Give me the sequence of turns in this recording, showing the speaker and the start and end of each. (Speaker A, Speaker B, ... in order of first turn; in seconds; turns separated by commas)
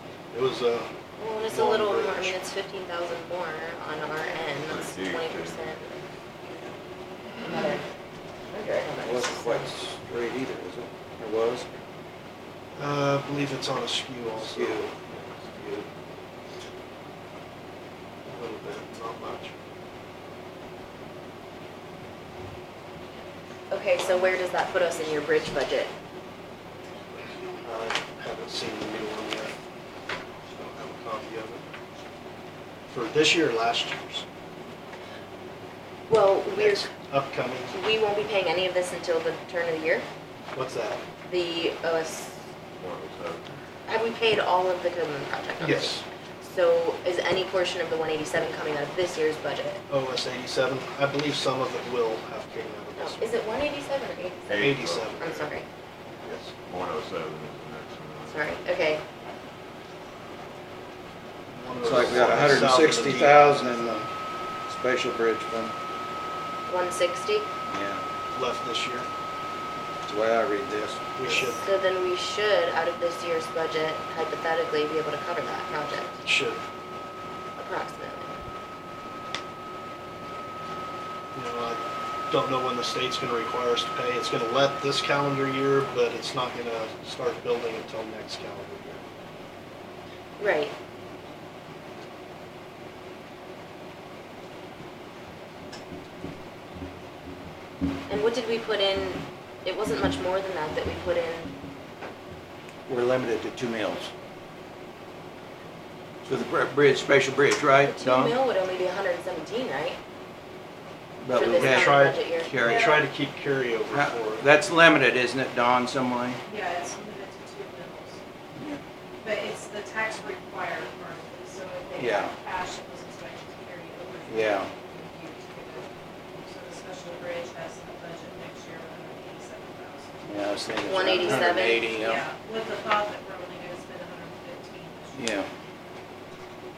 Speaker A: 0.3-0.9, Speaker B: 1.2-6.0, Speaker A: 1.4-2.4, Speaker C: 4.6-5.8, Speaker B: 7.4-7.8, Speaker B: 8.4-9.7, Speaker D: 9.0-11.8, Speaker A: 12.8-15.5, Speaker D: 14.3-14.9, Speaker D: 15.6-15.9, Speaker A: 18.2-19.5, Speaker B: 23.7-25.9, Speaker A: 27.6-29.5, Speaker A: 30.5-31.7, Speaker A: 32.9-34.2, Speaker B: 36.1-36.9, Speaker A: 36.5-37.8, Speaker B: 37.7-40.1, Speaker A: 40.5-41.0, Speaker B: 41.2-42.5, Speaker C: 42.8-43.6, Speaker B: 43.9-49.8, Speaker A: 45.6-46.0, Speaker A: 49.9-53.4, Speaker B: 53.0-54.6, Speaker C: 54.5-55.5, Speaker A: 54.6-55.4, Speaker B: 55.2-55.7, Speaker A: 56.2-56.5, Speaker C: 56.6-58.5, Speaker B: 58.3-59.0, Speaker A: 61.5-64.1, Speaker D: 61.8-64.1, Speaker D: 64.7-65.7, Speaker B: 66.7-67.5, Speaker D: 67.7-68.0, Speaker A: 68.3-69.1, Speaker D: 70.0-71.1, Speaker A: 71.2-71.6, Speaker B: 71.2-76.2, Speaker A: 76.2-76.6, Speaker B: 77.5-78.4, Speaker A: 81.3-89.0, Speaker B: 90.4-90.7, Speaker B: 98.1-101.5, Speaker D: 102.9-104.1, Speaker D: 106.2-108.4, Speaker B: 107.8-110.0, Speaker D: 111.2-112.9, Speaker B: 111.3-112.5, Speaker A: 111.5-114.4, Speaker E: 112.6-113.1, Speaker D: 113.9-116.4, Speaker E: 116.4-118.2, Speaker D: 118.5-118.8, Speaker E: 119.2-125.9, Speaker D: 121.9-122.3, Speaker D: 124.3-124.7, Speaker E: 126.4-130.2, Speaker D: 130.2-132.2, Speaker B: 130.8-131.9, Speaker E: 131.1-135.3, Speaker D: 135.1-135.5